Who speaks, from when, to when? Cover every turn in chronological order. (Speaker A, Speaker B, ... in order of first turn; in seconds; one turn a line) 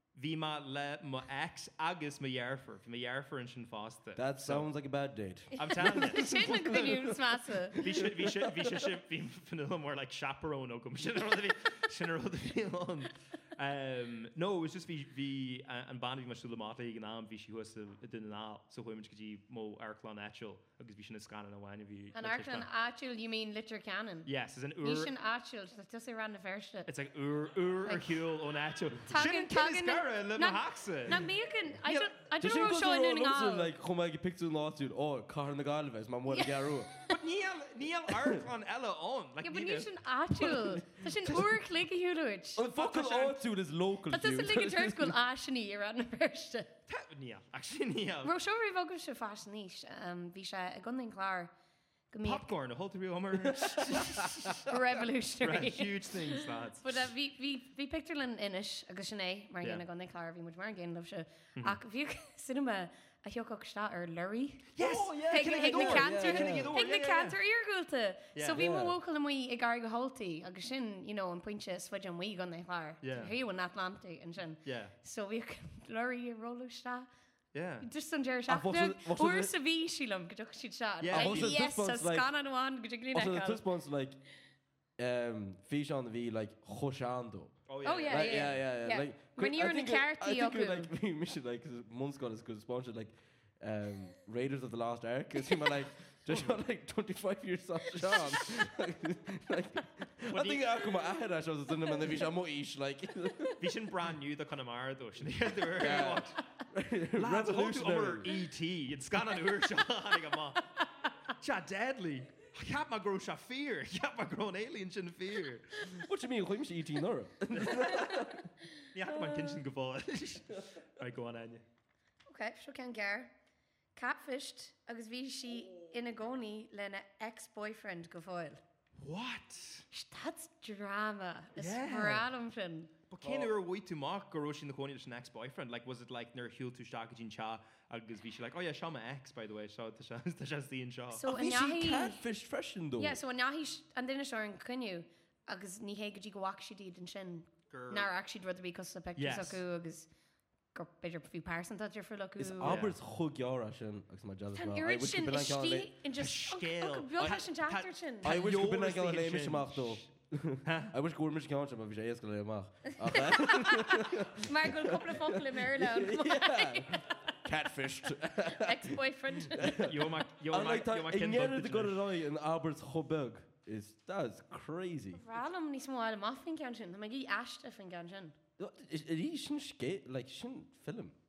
Speaker A: 0.1-4.7
Speaker B: 4.2-8.8
Speaker C: 5.6-7.8
Speaker A: 5.6-6.3
Speaker A: 7.8-22.7
Speaker C: 22.1-26.9
Speaker A: 24.2-25.1
Speaker A: 26.9-31.3
Speaker C: 27.9-28.2
Speaker C: 29.1-33.7
Speaker A: 31.8-32.1
Speaker B: 32.4-36.9
Speaker C: 36.3-37.1
Speaker A: 37.1-39.9
Speaker B: 38.1-38.4
Speaker C: 39.4-42.7
Speaker B: 40.4-41.6
Speaker B: 42.6-45.2
Speaker A: 42.7-43.4
Speaker C: 44.1-46.7
Speaker A: 46.9-48.3
Speaker C: 48.2-51.5
Speaker C: 52.1-52.5
Speaker A: 52.2-54.7
Speaker C: 54.6-77.1
Speaker A: 55.4-57.0
Speaker A: 64.8-67.4
Speaker B: 64.8-66.8
Speaker A: 68.3-68.6
Speaker B: 68.5-69.0
Speaker A: 73.0-73.3
Speaker A: 74.7-74.9
Speaker A: 77.5-77.9
Speaker C: 77.8-83.7
Speaker B: 78.5-79.5
Speaker A: 81.0-81.6
Speaker B: 81.1-82.3
Speaker B: 83.1-84.2
Speaker B: 85.0-103.7
Speaker A: 87.7-88.5
Speaker C: 87.8-90.9
Speaker A: 96.3-96.6
Speaker A: 100.3-100.7
Speaker A: 103.6-106.4
Speaker B: 105.8-108.4
Speaker A: 107.2-110.8
Speaker A: 111.3-115.9
Speaker B: 115.9-118.5
Speaker A: 117.5-118.3
Speaker A: 118.9-121.6
Speaker C: 119.0-119.6
Speaker C: 122.3-123.3
Speaker C: 124.0-128.6
Speaker A: 129.0-129.9
Speaker C: 129.9-132.9
Speaker A: 131.6-132.3
Speaker A: 133.1-141.3
Speaker B: 133.2-133.5
Speaker C: 141.1-142.2
Speaker B: 141.3-143.2
Speaker C: 143.0-150.1
Speaker A: 147.7-148.1
Speaker A: 149.2-149.6
Speaker C: 150.7-152.8
Speaker B: 152.4-155.9
Speaker A: 152.6-153.0
Speaker C: 154.5-158.3
Speaker A: 156.2-160.0
Speaker B: 158.2-175.2
Speaker A: 160.7-160.9
Speaker C: 162.9-167.1
Speaker C: 168.4-169.9
Speaker A: 169.7-172.0
Speaker C: 175.1-178.4
Speaker B: 178.6-181.2